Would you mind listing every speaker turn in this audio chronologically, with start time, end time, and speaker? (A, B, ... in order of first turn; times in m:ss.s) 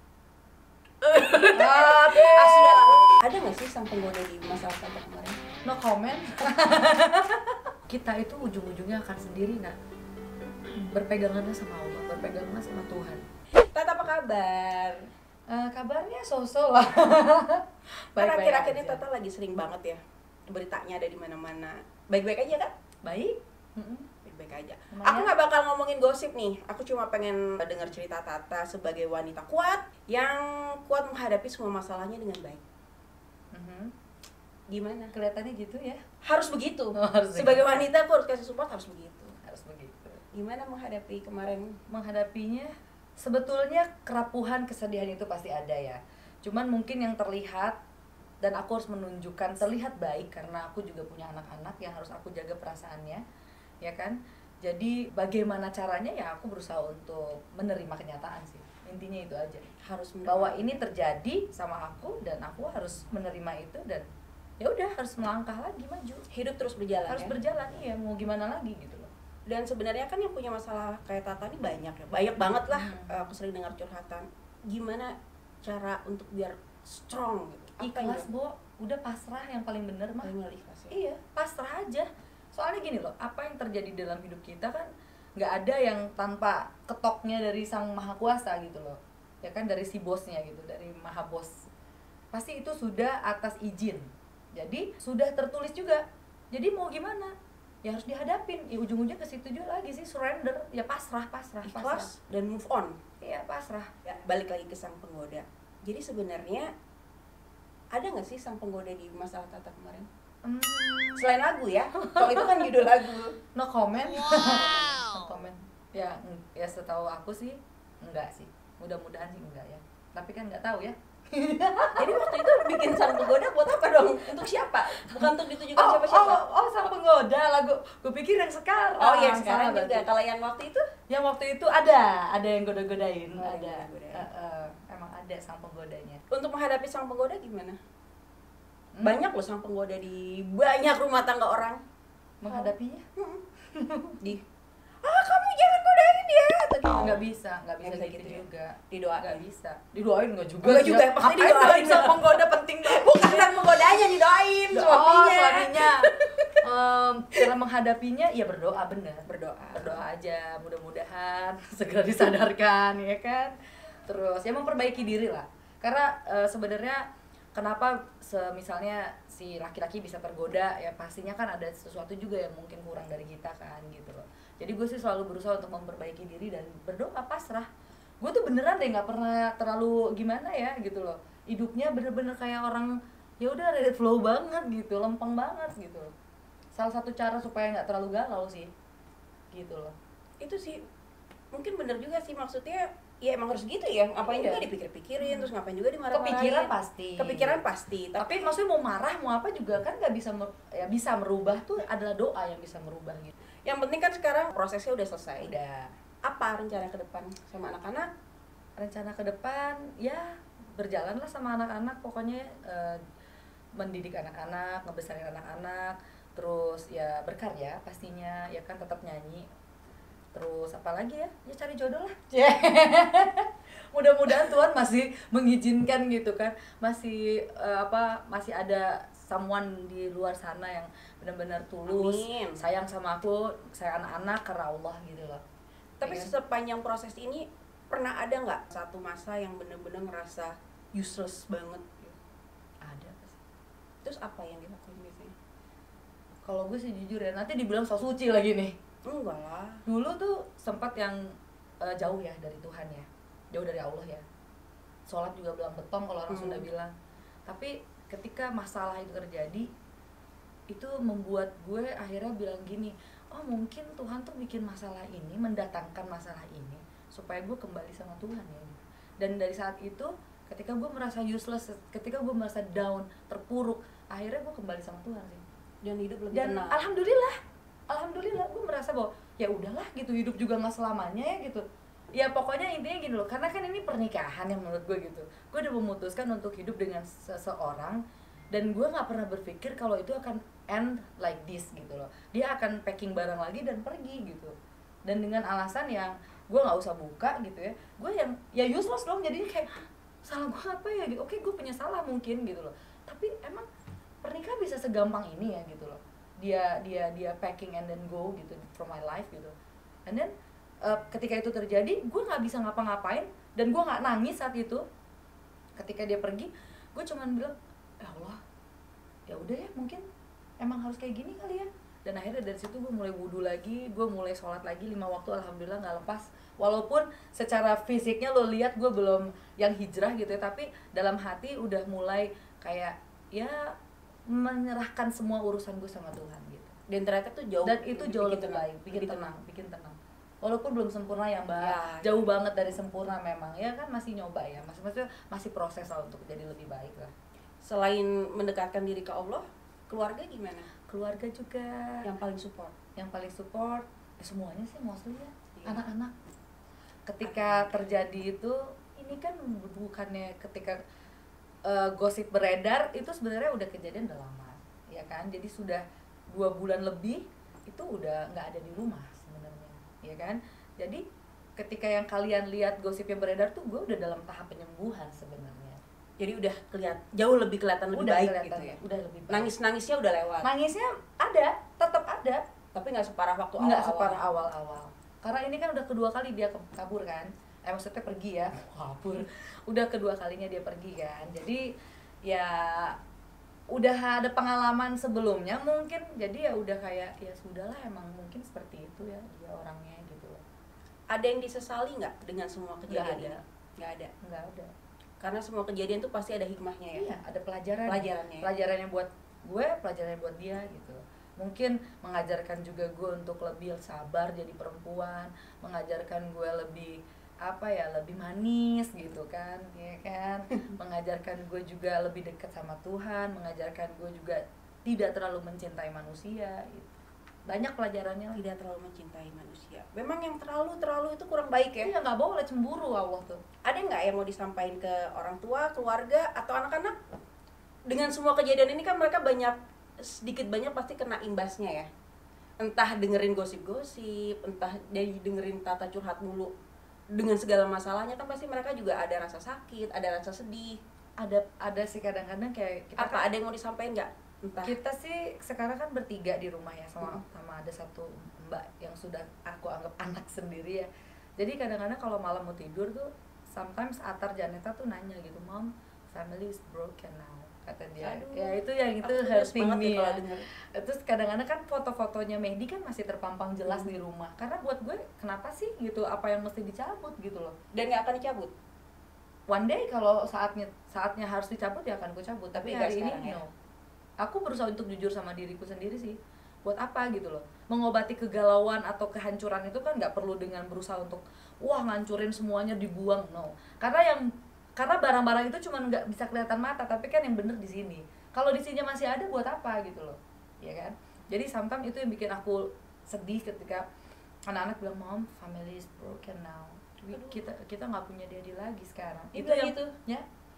0:01.0-0:05.4 A
0:01.5-0:03.1 B
0:05.6-0:09.8 B
0:10.9-0:13.2 B
0:13.7-0:15.1 A
0:15.5-0:19.0 B
0:18.2-0:22.7 A
0:23.0-0:24.1 B
0:24.2-0:32.6 A
0:24.9-0:25.3 B
0:33.5-0:33.9 B
0:34.7-0:35.1 A
0:35.1-0:36.0 B
0:36.2-0:39.3 A
0:37.0-0:37.8 B
0:39.4-0:40.2 B
0:40.3-0:41.8 A
0:41.9-0:47.7 B
0:48.4-0:53.2 B
0:53.8-0:59.6 B
0:59.8-1:00.8 A
1:00.2-1:04.0 B
1:04.6-1:06.2 B
1:06.3-1:07.3 A
1:07.1-1:09.1 B
1:09.5-1:18.3 A
1:12.7-1:13.2 B
1:17.8-1:20.3 B
1:20.2-1:21.0 A
1:20.9-1:31.5 B
1:32.3-1:42.1 B
1:41.6-1:43.0 A
1:43.2-1:43.9 B
1:44.0-1:46.7 A
1:47.9-1:50.1 A
1:50.4-1:51.3 B
1:51.2-1:53.4 A
1:52.1-1:52.7 B
1:53.5-2:02.7 B
2:02.0-2:06.4 A
2:05.0-2:10.0 B
2:09.0-2:10.9 A
2:11.1-2:16.2 B
2:13.4-2:14.2 A
2:16.3-2:17.8 A
2:18.9-2:19.2 B
2:19.0-2:21.8 A
2:22.4-2:23.0 B
2:22.5-2:23.4 A
2:23.7-2:24.2 B
2:25.0-2:27.2 A
2:27.0-2:34.0 B
2:27.8-2:29.4 A
2:30.6-2:36.5 A
2:34.7-2:43.5 B
2:39.3-2:40.0 A
2:44.0-2:47.0 B
2:47.5-2:57.7 B
2:58.2-3:06.1 B
3:06.7-3:08.7 B
3:09.5-3:10.0 B
3:10.4-3:10.8 A
3:11.5-3:18.5 A
3:14.2-3:14.7 B
3:15.2-3:15.5 B
3:16.1-3:17.6 B
3:18.2-3:23.3 B
3:23.6-3:25.5 A
3:25.4-3:25.9 B
3:26.2-3:28.1 A
3:28.8-3:33.0 B
3:33.8-3:39.5 B
3:40.3-3:55.4 B
3:51.9-3:52.6 A
3:56.0-4:01.9 A
3:56.0-3:56.3 B
4:02.8-4:03.4 B
4:04.0-4:05.3 A
4:06.4-4:08.7 B
4:09.1-4:09.8 A
4:09.8-4:11.2 B
4:11.8-4:14.2 B
4:15.1-4:16.9 B
4:16.3-4:16.7 A
4:17.5-4:19.7 B
4:20.7-4:35.4 B
4:35.8-4:36.8 A
4:36.3-4:37.4 B
4:37.9-4:41.6 B
4:42.1-4:48.0 B
4:48.5-4:54.5 B
4:55.0-5:03.6 B
5:04.2-5:09.5 B
5:10.0-5:10.3 B
5:10.8-5:14.8 B
5:15.8-5:18.4 B
5:19.3-5:20.0 B
5:20.6-5:33.7 B
5:34.3-5:36.7 B
5:36.9-5:39.3 A
5:37.6-5:47.1 B
5:41.6-5:42.3 A
5:47.6-5:50.7 A
5:50.9-5:52.0 B
5:52.0-5:52.7 A
5:53.0-5:56.1 B
5:55.5-5:55.8 A
5:57.1-6:00.8 B
5:57.2-5:57.9 A
6:01.6-6:11.0 B
6:11.6-6:15.8 B
6:16.2-6:18.8 A
6:17.9-6:19.5 B
6:19.3-6:20.5 A
6:20.4-6:22.4 B
6:22.7-6:24.2 A
6:23.6-6:31.6 B
6:32.3-6:33.0 B
6:33.7-6:40.4 B
6:41.1-6:44.1 A
6:42.9-6:43.4 B
6:44.2-6:44.7 B
6:45.2-6:47.1 A
6:46.9-6:56.9 B
6:47.8-6:48.5 A
6:57.4-7:07.0 B
7:07.5-7:08.4 B
7:08.3-7:11.9 A
7:11.8-7:13.4 B
7:13.6-7:17.0 A
7:17.9-7:21.9 A
7:22.6-7:26.5 A
7:27.1-7:30.8 A
7:31.2-7:33.3 B
7:33.0-7:34.8 A
7:34.6-7:40.9 B
7:41.4-7:50.2 B
7:48.0-7:50.5 A
7:50.7-7:57.5 B
7:53.6-7:54.0 A
7:57.7-7:58.5 A
7:59.5-8:03.5 B
8:02.5-8:03.4 A
8:04.2-8:14.2 B
8:14.8-8:23.9 B
8:24.5-8:30.2 B
8:27.0-8:27.4 A
8:29.3-8:29.9 A